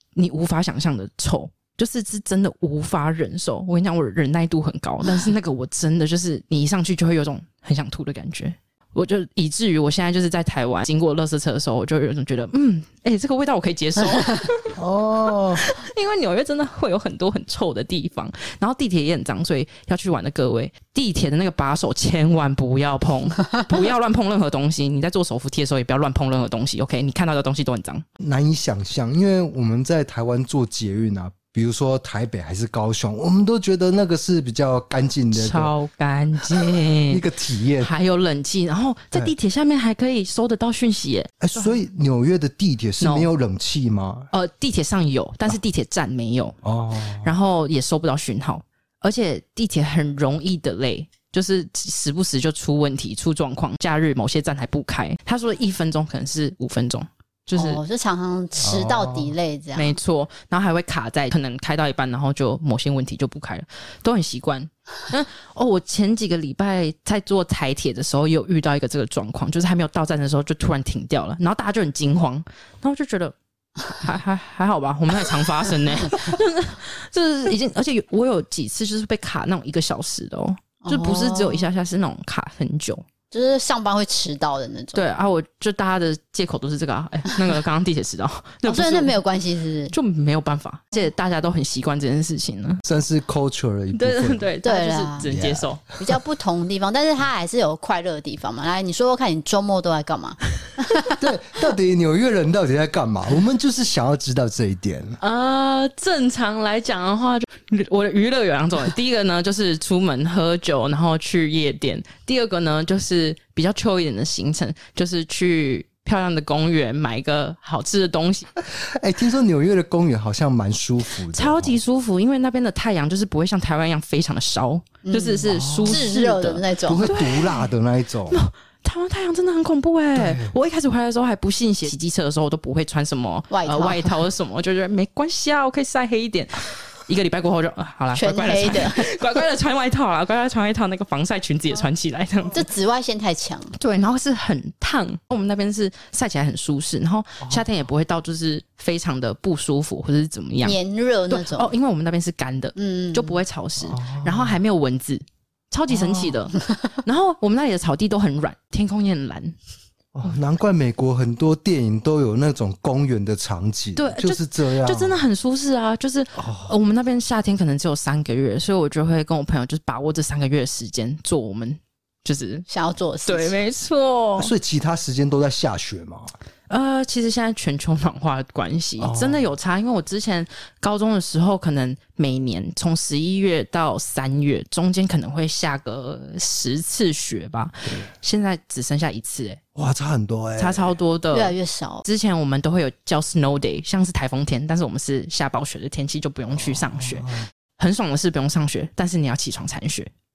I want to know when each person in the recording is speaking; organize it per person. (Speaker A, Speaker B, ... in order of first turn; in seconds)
Speaker A: 0.2-14.7, 15.6-28.1, 35.3-37.2, 37.8-41.8, 43.0-43.3, 44.3-46.6, 47.2-57.8, 59.8-83.0, 84.9-89.2, 89.9-92.8, 93.9-95.8, 105.2-118.5, 121.3-127.7, 128.3-142.7, 143.8-150.8, 151.3-159.6, 164.0-172.7, 173.3-174.5, 176.7-189.6, 190.6-200.1
Speaker B: 14.8-15.6, 28.2-35.7, 36.5-37.9, 41.4-44.3, 46.6-47.3, 58.6-59.3, 92.8-94.5, 95.3-96.1, 101.2-105.2, 118.6-121.8, 125.5-126.1, 126.8-128.4, 130.2-130.5, 153.8-154.6, 155.9-156.3, 160.1-165.2, 166.4-166.7, 174.4-176.3, 179.0-179.4, 189.8-190.9, 196.6-197.5
Speaker C: 57.5-60.0, 80.8-81.7, 83.3-85.0, 88.7-89.9, 94.6-95.3, 96.0-101.2, 125.0-127.2, 133.5-134.2, 138.2-139.1, 142.5-143.8, 150.6-151.7, 152.8-153.4, 172.7-173.6, 191.3-192.1